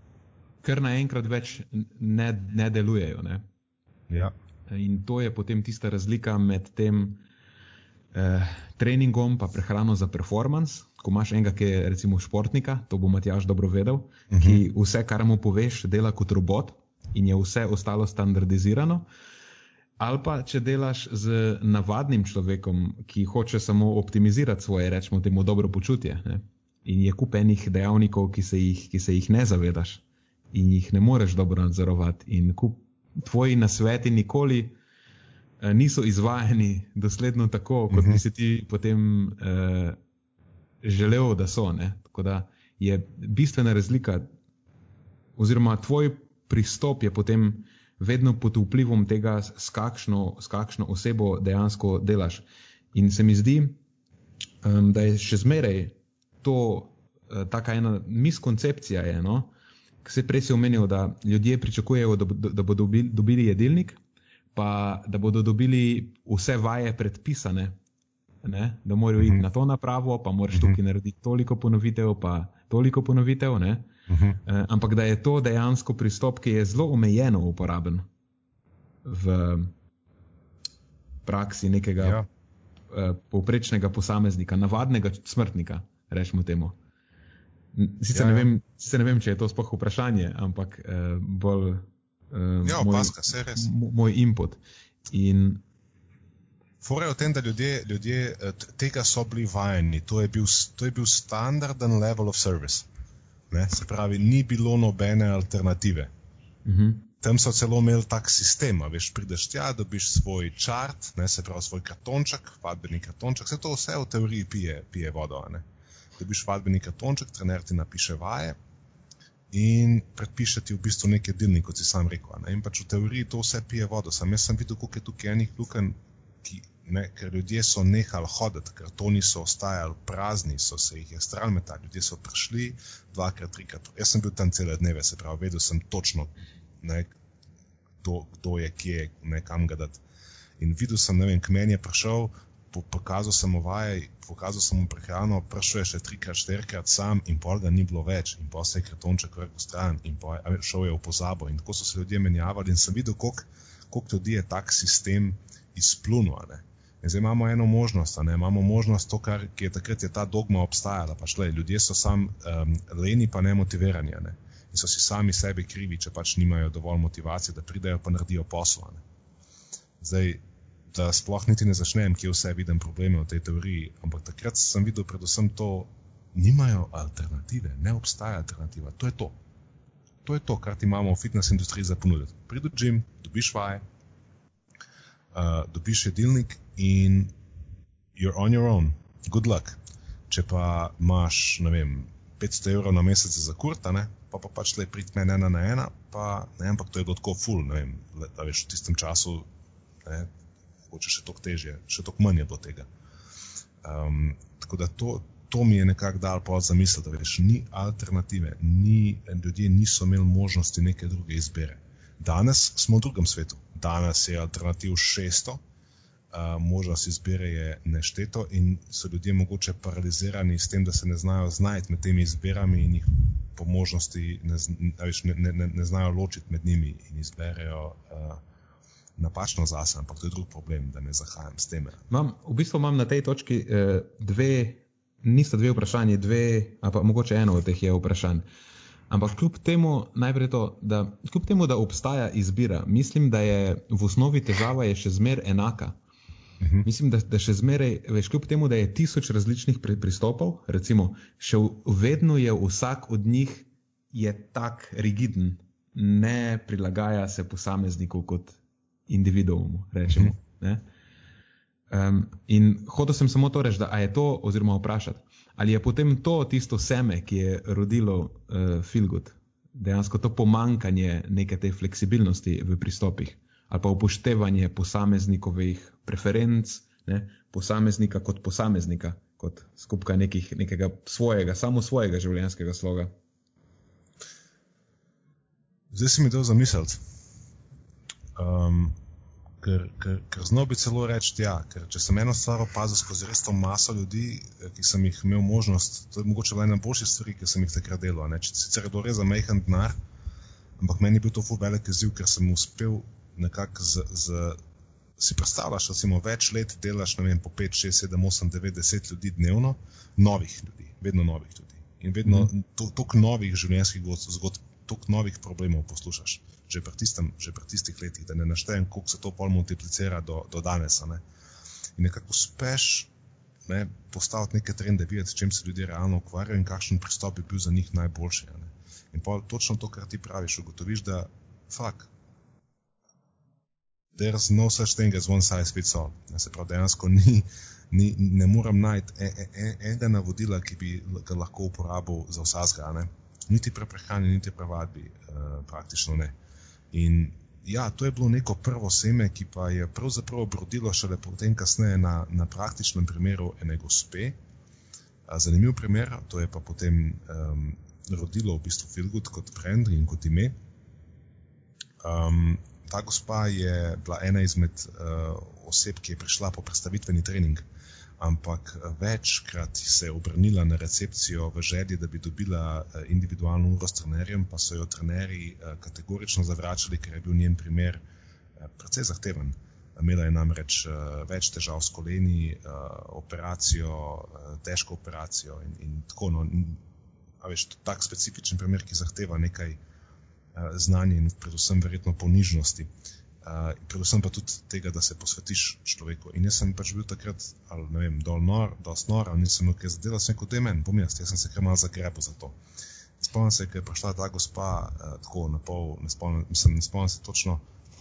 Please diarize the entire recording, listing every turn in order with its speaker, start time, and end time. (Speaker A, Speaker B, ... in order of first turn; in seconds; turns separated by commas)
Speaker A: 0.6-3.5, Speaker B: 4.1-4.3, Speaker A: 4.7-7.2, Speaker A: 8.1-19.1, Speaker B: 14.3-14.6, Speaker A: 20.0-34.8, Speaker A: 35.6-40.0, Speaker B: 37.9-38.2, Speaker A: 40.8-44.3, Speaker A: 45.4-53.8, Speaker A: 54.6-59.5, Speaker A: 60.0-64.0, Speaker A: 64.5-67.8, Speaker A: 68.4-73.9, Speaker B: 70.5-70.8, Speaker B: 74.1-74.4, Speaker A: 74.5-78.1, Speaker A: 79.0-79.7, Speaker A: 81.2-82.2, Speaker B: 82.0-82.3, Speaker A: 82.9-86.8, Speaker A: 87.7-95.6, Speaker B: 88.1-88.5, Speaker B: 92.6-93.7, Speaker B: 96.8-102.9, Speaker B: 103.5-106.1, Speaker A: 106.7-107.1, Speaker B: 107.2-115.7, Speaker B: 116.2-118.6, Speaker B: 119.5-137.1, Speaker B: 138.0-140.0, Speaker B: 140.6-169.0, Speaker B: 170.0-179.4, Speaker B: 180.2-183.8, Speaker B: 185.3-187.3, Speaker B: 188.2-189.8, Speaker B: 190.3-199.5, Speaker B: 200.0-200.3, Speaker B: 200.9-202.9, Speaker B: 203.8-215.6, Speaker B: 216.3-228.4, Speaker B: 229.2-232.1, Speaker A: 232.1-238.4, Speaker A: 239.1-246.0, Speaker B: 246.6-246.9, Speaker A: 246.8-260.8, Speaker B: 260.1-260.3, Speaker A: 261.9-283.1, Speaker B: 285.9-287.0, Speaker B: 288.4-289.0, Speaker B: 289.6-300.0, Speaker B: 300.8-304.6, Speaker B: 305.2-321.2, Speaker B: 322.0-323.1, Speaker B: 323.7-332.1, Speaker B: 334.1-346.3, Speaker B: 346.9-354.4, Speaker B: 355.3-360.6, Speaker B: 362.0-367.6, Speaker B: 368.2-378.0, Speaker B: 378.6-386.8, Speaker B: 387.4-389.8, Speaker B: 390.6-392.9, Speaker B: 393.4-402.6, Speaker B: 403.2-407.6